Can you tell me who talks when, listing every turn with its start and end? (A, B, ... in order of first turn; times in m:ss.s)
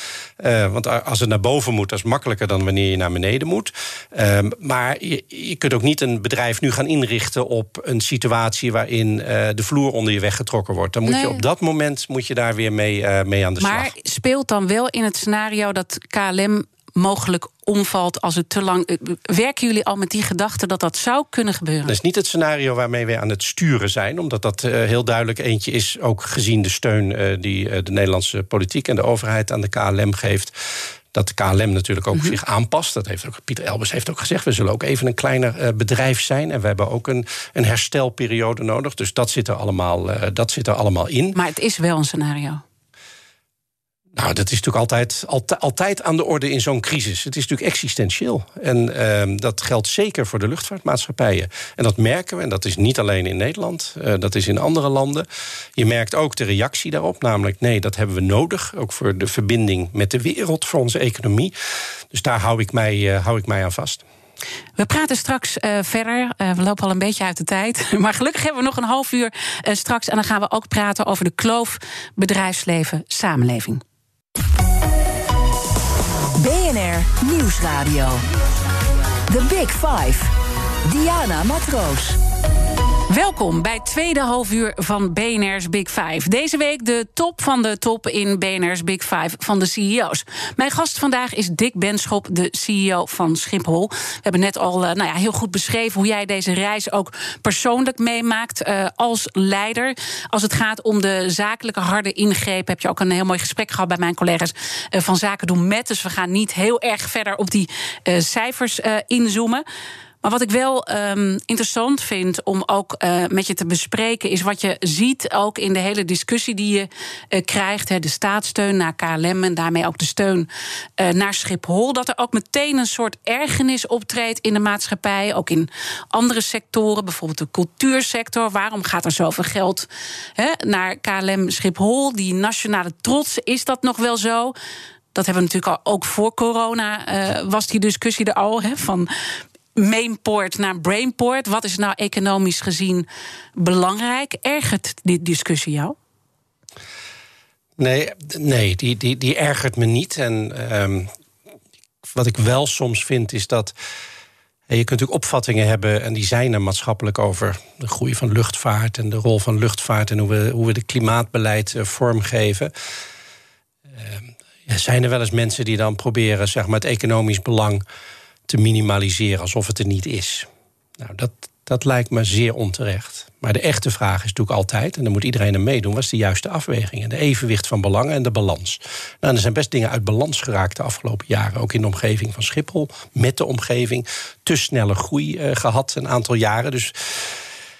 0:00.4-0:13.9 A
0:11.0-0:11.4 B
0:13.6-0:21.9 B
0:21.8-0:30.5 A
0:31.1-0:41.4 A
0:41.3-0:42.6 B
0:44.1-0:55.2 A
0:55.8-1:01.5 A
1:02.1-1:04.0 A
1:04.8-1:13.8 B
1:16.4-1:18.1 C
1:19.3-1:20.2 C
1:20.8-1:22.2 C
1:23.1-1:49.6 B
1:50.2-2:14.5 B
2:15.1-2:19.1 B
2:19.8-2:25.9 B
2:27.8-2:31.1 A
2:32.1-2:33.7 A
2:34.7-2:42.7 A
2:43.9-2:47.8 A
2:48.5-3:07.4 A